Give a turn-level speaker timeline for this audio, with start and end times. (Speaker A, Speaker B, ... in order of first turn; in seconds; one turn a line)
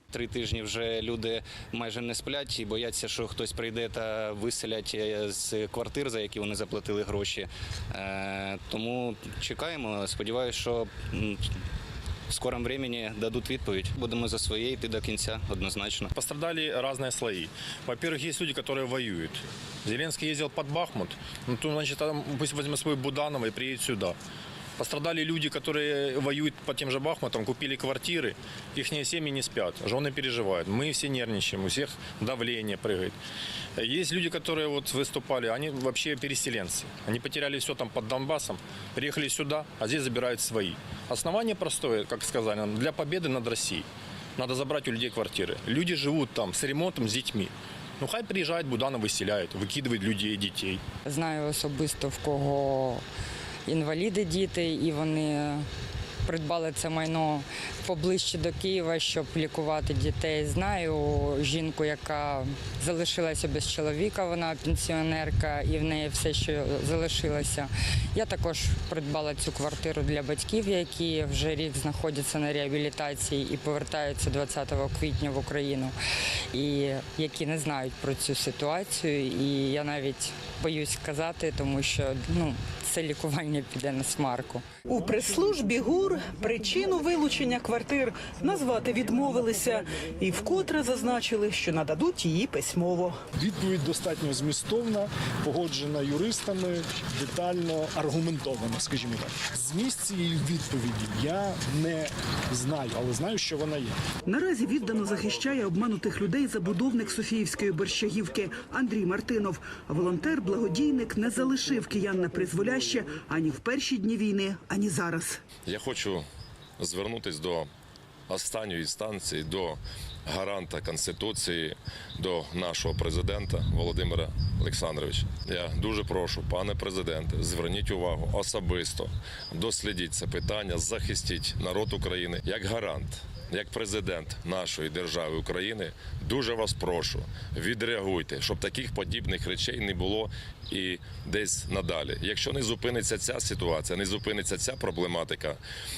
Speaker A: 0.1-11.5
Speaker A: 12.3-16.1
Speaker B: 16.1-24.2
Speaker B: 24.8-33.2
Speaker B: 33.8-43.9
Speaker B: 44.4-50.8
Speaker C: 51.0-53.0
Speaker C: 53.7-55.6
Speaker C: 56.2-75.9
Speaker C: 76.5-84.6
Speaker D: 84.9-93.2
Speaker E: 93.4-104.0
Speaker D: 104.3-115.4
Speaker F: 115.7-116.3
Speaker F: 116.8-117.7
Speaker F: 118.3-145.6